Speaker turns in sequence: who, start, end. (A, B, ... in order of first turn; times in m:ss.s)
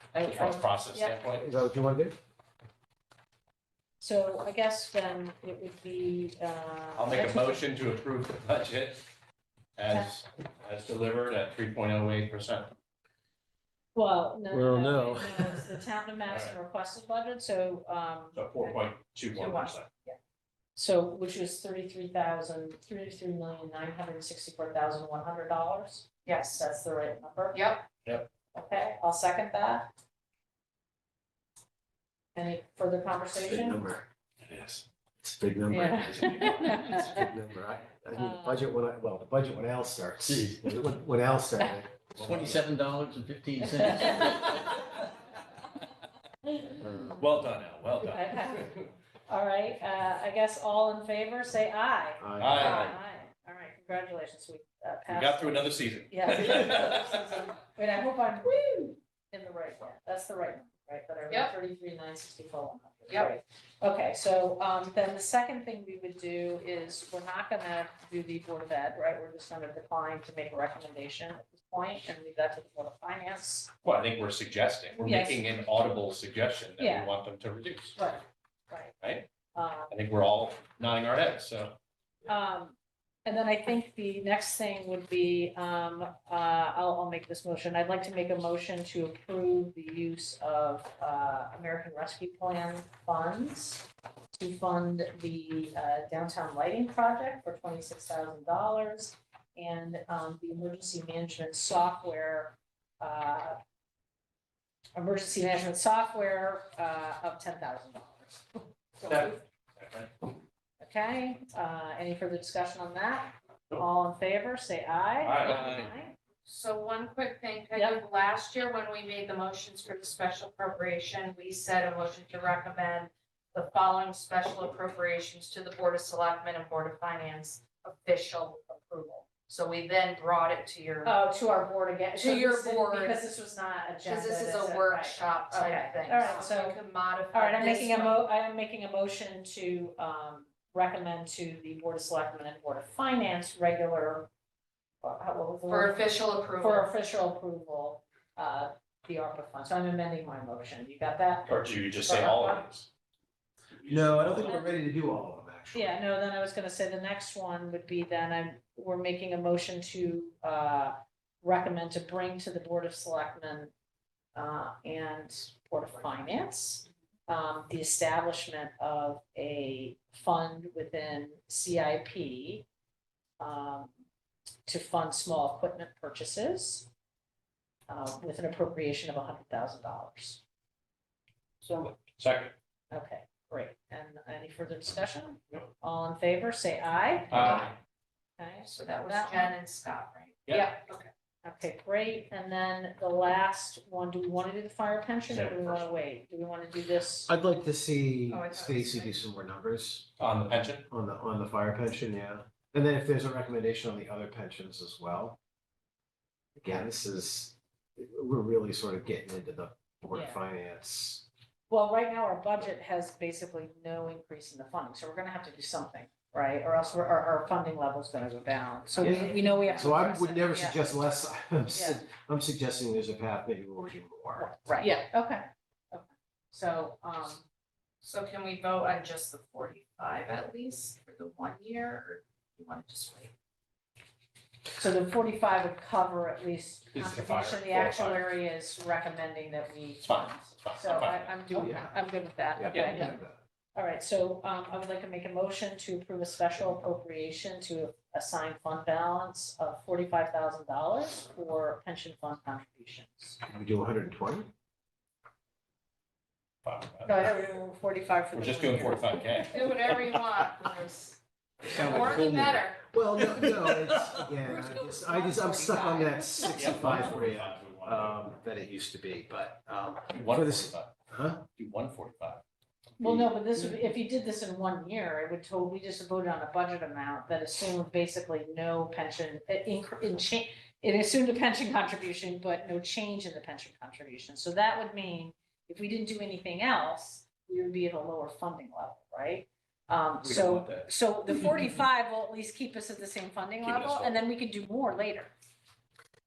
0:00.2-0:01.5 A
0:00.9-0:01.2 B
0:01.4-0:02.2 C
0:04.0-0:07.6 B
0:07.0-0:09.0 A
0:09.8-0:12.7 A
0:13.9-0:18.8 B
0:14.5-0:15.8 C
0:16.3-0:16.5 A
0:18.3-0:19.9 A
0:19.3-0:20.2 D
0:20.8-0:27.6 B
0:26.2-0:26.6 D
0:27.5-0:27.8 D
0:28.5-0:29.9 B
0:32.3-0:33.8 B
0:33.4-0:42.6 C
0:35.7-0:37.3 B
0:38.2-0:38.6 B
0:40.3-0:40.6 E
0:42.2-0:44.5 E
0:43.8-0:44.5 B
0:47.1-0:48.9 A
0:48.1-0:48.8 B
0:49.3-1:13.7 B
0:52.2-0:52.9 C
0:52.4-0:53.0 A
0:52.6-0:52.8 D
0:55.1-0:57.1 A
1:03.1-1:03.3 D
1:13.8-1:18.0 A
1:15.0-1:15.4 B
1:16.8-1:17.1 B
1:18.0-1:18.9 B
1:19.0-1:19.3 A
1:19.5-1:19.9 B
1:19.9-1:21.8 A
1:22.2-1:43.6 B
1:45.0-1:49.4 B
1:49.0-1:50.1 A
1:50.8-1:56.1 B
1:55.2-1:55.9 A
1:56.4-2:11.1 D
1:57.7-1:58.0 B
2:11.0-2:16.8 B
2:12.2-2:13.2 D
2:14.0-2:18.2 D
2:17.3-2:24.3 B
2:25.0-2:32.7 B
2:25.7-2:26.9 D
2:31.5-2:32.9 A
2:33.7-2:34.5 A
2:33.9-2:36.0 C
2:34.4-2:34.7 B
2:35.7-2:43.7 B
2:44.3-2:52.6 B
2:53.4-2:53.9 B
2:54.6-2:56.9 B
2:57.9-3:00.4 B
3:01.6-3:02.5 A
3:02.9-3:07.5 B
3:07.3-3:07.7 A
3:07.4-3:07.7 D
3:08.4-3:09.5 B
3:08.7-3:11.1 D
3:10.5-3:10.7 A
3:11.4-3:17.3 B
3:15.3-3:15.9 A
3:17.2-3:20.1 C
3:18.3-3:19.2 D
3:20.2-3:20.9 A
3:20.9-3:25.4 C
3:26.6-3:31.2 C
3:30.1-3:30.4 B
3:31.7-3:40.8 B
3:39.0-3:44.5 C
3:41.7-3:42.1 B
3:44.4-3:47.4 B
3:48.0-3:53.3 D
3:54.8-4:03.2 B
3:56.9-3:58.3 A
4:00.0-4:01.4 A
4:01.5-4:01.9 C
4:02.6-4:03.4 C
4:02.7-4:03.0 A
4:03.7-4:13.4 B
4:13.5-4:14.5 C
4:16.6-4:17.4 A
4:17.0-4:19.5 B
4:18.3-4:19.8 A
4:19.5-4:21.2 D
4:21.7-4:22.6 E
4:21.7-4:22.8 D
4:22.9-4:31.4 C
4:23.3-4:24.2 E
4:24.7-4:26.5 D
4:26.5-4:28.2 A
4:30.1-4:30.9 A
4:31.6-4:32.4 A
4:33.0-4:55.3 B
4:33.0-4:33.3 C
4:50.2-4:50.9 A
4:53.6-4:54.2 A